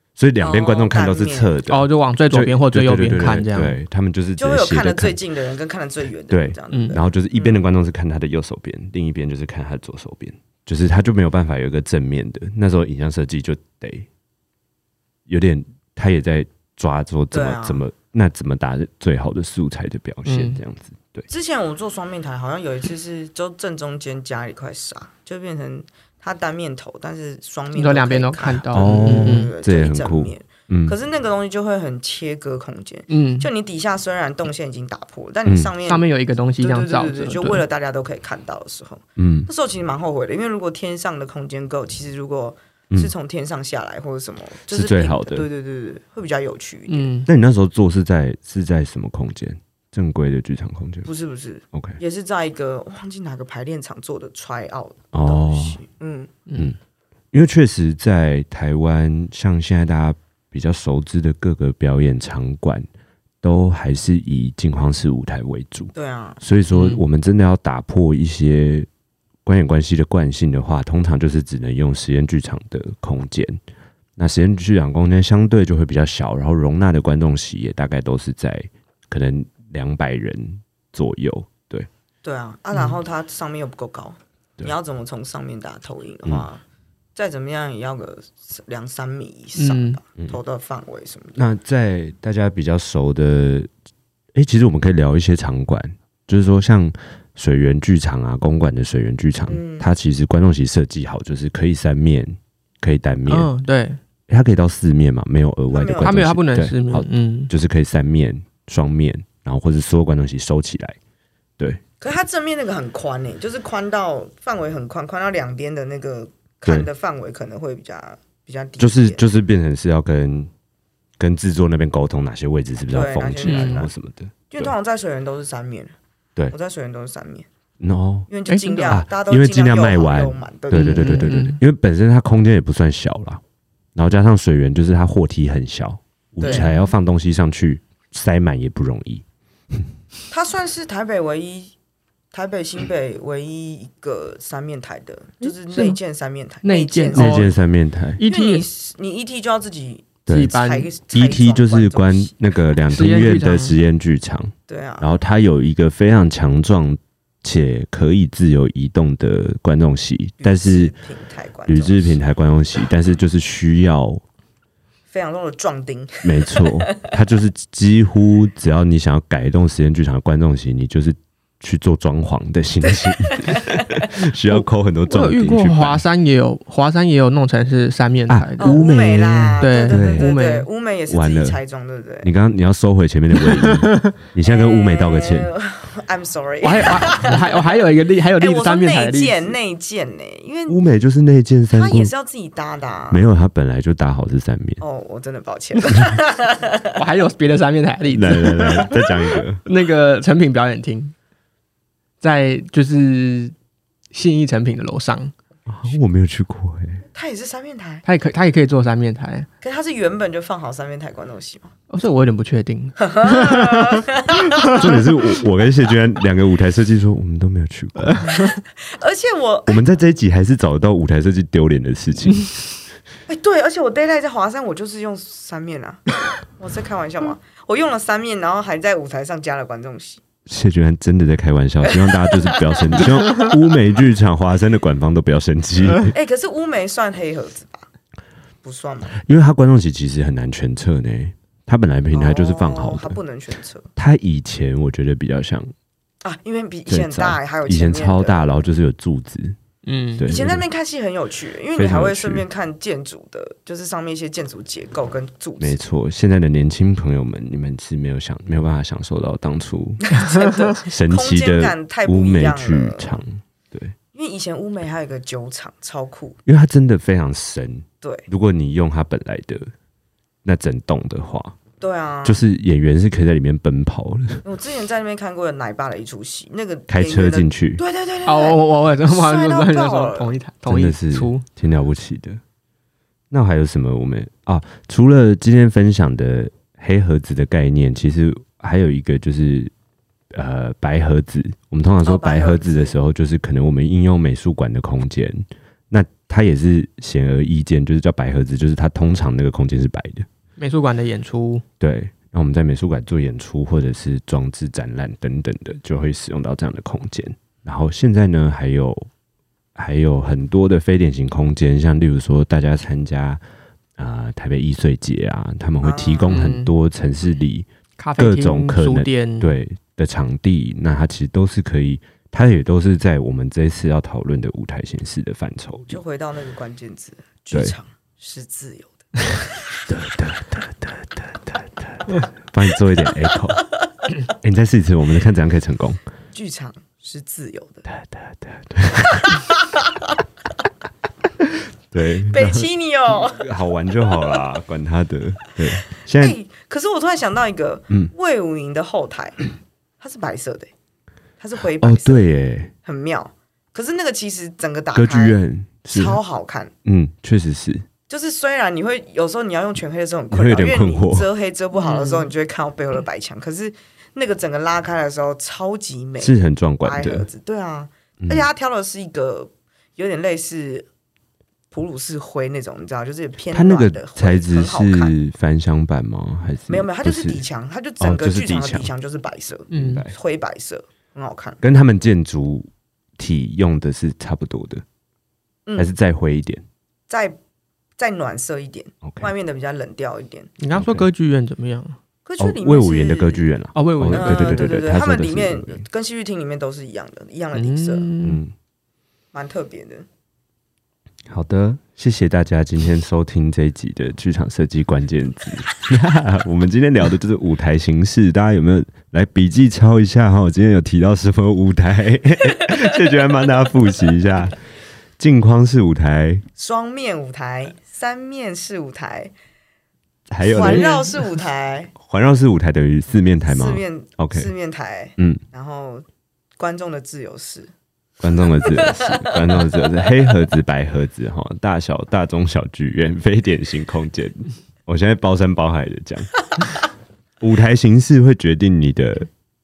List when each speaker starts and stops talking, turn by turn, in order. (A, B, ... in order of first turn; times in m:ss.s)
0:00.2-0:05.2 A
0:00.4-0:01.5 B
0:01.7-0:03.8 C
0:04.4-0:07.6 B
0:06.3-0:14.1 A
0:06.7-0:07.0 C
0:15.3-0:21.3 A
0:17.3-0:17.8 B
0:20.2-0:20.6 C
0:21.3-0:36.0 B
0:27.7-0:29.5 C
0:28.7-0:30.9 A
0:33.1-0:33.5 C
0:35.4-0:35.7 A
0:35.8-0:37.6 C
0:36.6-0:47.1 B
0:39.2-0:39.5 A
0:44.7-0:45.5 A
0:46.9-0:47.3 C
0:47.3-0:51.1 A
0:51.0-0:56.3 B
0:51.7-0:52.0 A
0:55.1-0:55.8 A
0:57.3-1:02.8 A
1:03.4-1:08.9 A
1:05.9-1:06.4 B
1:06.7-1:07.0 C
1:09.4-1:13.6 A
1:14.2-1:21.9 A
1:22.2-1:26.6 B
1:27.1-1:31.4 B
1:29.5-1:30.0 C
1:31.4-1:33.7 A
1:34.3-1:43.5 A
1:39.5-1:39.9 B
1:43.2-1:44.0 C
1:44.3-1:51.0 A
1:45.7-1:46.2 B
1:46.0-1:47.5 C
1:52.0-1:59.2 B
1:58.8-2:00.5 A
2:01.2-2:04.7 A
2:02.9-2:03.9 B
2:03.4-2:03.9 C
2:04.5-2:05.9 B
2:06.5-2:07.5 B
2:07.8-2:08.3 A
2:08.3-2:11.3 B
2:08.5-2:09.0 C
2:08.9-2:13.4 A
2:10.7-2:11.6 C
2:14.0-2:19.2 A
2:16.4-2:16.7 B
2:16.4-2:16.9 C
2:20.3-2:21.7 B
2:22.3-2:27.5 B
2:25.4-2:26.0 C
2:26.6-2:27.5 C
2:27.1-2:28.2 A
2:28.2-2:28.7 C
2:28.2-2:32.4 B
2:30.2-2:30.6 A
2:30.2-2:30.9 C
2:31.1-2:40.9 A
2:32.9-2:33.8 C
2:34.7-2:35.1 B
2:40.4-2:42.2 B
2:41.7-2:44.2 A
2:45.1-2:47.0 B
2:46.2-2:56.0 A
2:52.8-2:53.8 B
2:54.5-2:58.8 C
2:58.3-3:00.3 A
2:58.6-3:02.3 B
2:59.6-3:00.7 C
3:01.1-3:01.6 A
3:02.2-3:05.5 A
3:03.4-3:04.1 C
3:04.4-3:07.6 B
3:06.6-3:09.6 C
3:08.4-3:10.8 B
3:10.7-3:12.1 A
3:11.7-3:13.2 B
3:13.1-3:14.8 A
3:14.8-3:16.9 B
3:16.9-3:21.1 C
3:18.1-3:19.6 A
3:22.2-3:23.5 C
3:24.1-3:25.3 C
3:25.7-3:27.0 A
3:27.1-3:28.0 B
3:28.0-3:29.5 C
3:29.6-3:31.7 B
3:31.9-3:34.0 C
3:33.0-3:34.8 B
3:34.6-3:38.3 A
3:38.0-3:38.5 C
3:38.3-3:39.8 B
3:39.7-3:42.5 A
3:43.3-3:50.2 B
3:50.5-3:56.1 A
3:51.8-3:53.4 B
3:56.1-3:57.9 B
3:58.6-3:59.2 B
3:59.2-4:03.2 A
4:02.1-4:03.9 B
4:04.0-4:05.7 A
4:06.2-4:08.6 B
4:06.9-4:09.6 A
4:09.8-4:10.3 C
4:10.2-4:10.6 A
4:10.2-4:15.8 B
4:11.7-4:12.4 A
4:15.6-4:20.2 A
4:20.0-4:23.2 B
4:20.8-4:23.9 A
4:24.1-4:26.4 B
4:26.4-4:29.7 A
4:28.0-4:28.3 B
4:30.4-4:31.6 A
4:31.8-4:32.4 B
4:32.2-4:34.4 A
4:34.4-4:40.4 B
4:36.9-4:37.8 A
4:38.2-4:41.4 C
4:40.7-4:42.4 A
4:43.3-4:49.7 A
4:50.3-5:00.2 A
4:52.0-4:53.0 B
5:00.6-5:01.6 C
5:01.8-5:09.0 A
5:09.8-5:13.4 A
5:14.0-5:26.0 A
5:15.8-5:16.5 B
5:16.3-5:16.7 C
5:18.0-5:19.5 C
5:25.9-5:29.1 B
5:29.9-5:33.6 A
5:34.4-5:36.0 A
5:36.3-5:37.8 B
5:37.9-5:39.3 A
5:39.2-5:40.1 B
5:41.9-5:46.4 A
5:42.3-5:43.4 B
5:46.2-5:49.4 B
5:50.0-5:50.7 B
5:51.4-5:52.3 B
5:51.8-5:52.7 A
5:52.8-5:55.4 B
5:54.9-5:56.2 A
5:55.9-5:56.7 B
5:56.8-5:57.8 A
5:58.1-6:10.9 B
6:00.3-6:01.3 A
6:01.7-6:02.3 C
6:06.2-6:07.3 A
6:08.2-6:08.4 A
6:11.7-6:15.1 B
6:13.5-6:17.4 A
6:16.7-6:21.6 B
6:18.0-6:18.9 A
6:19.7-6:20.0 C
6:19.7-6:20.1 A
6:21.6-6:24.8 A
6:25.7-6:25.9 B
6:25.8-6:26.6 A
6:27.1-6:27.4 B
6:28.0-6:30.5 B
6:29.0-6:29.3 A
6:30.6-6:32.0 C
6:30.7-6:31.1 A
6:32.2-6:33.5 B
6:32.4-6:35.8 A
6:33.7-6:34.8 C
6:34.1-6:38.1 B
6:37.5-6:38.4 C
6:38.2-6:38.5 A
6:39.3-6:40.0 B
6:41.3-6:54.6 A
6:55.2-6:56.4 A
6:56.6-6:59.3 B
7:00.3-7:00.9 A
7:00.4-7:01.9 B
7:00.5-7:01.1 C
7:02.0-7:04.5 A
7:03.5-7:06.0 B
7:06.6-7:07.7 B
7:08.2-7:16.4 A
7:08.6-7:09.4 B
7:17.4-7:19.3 A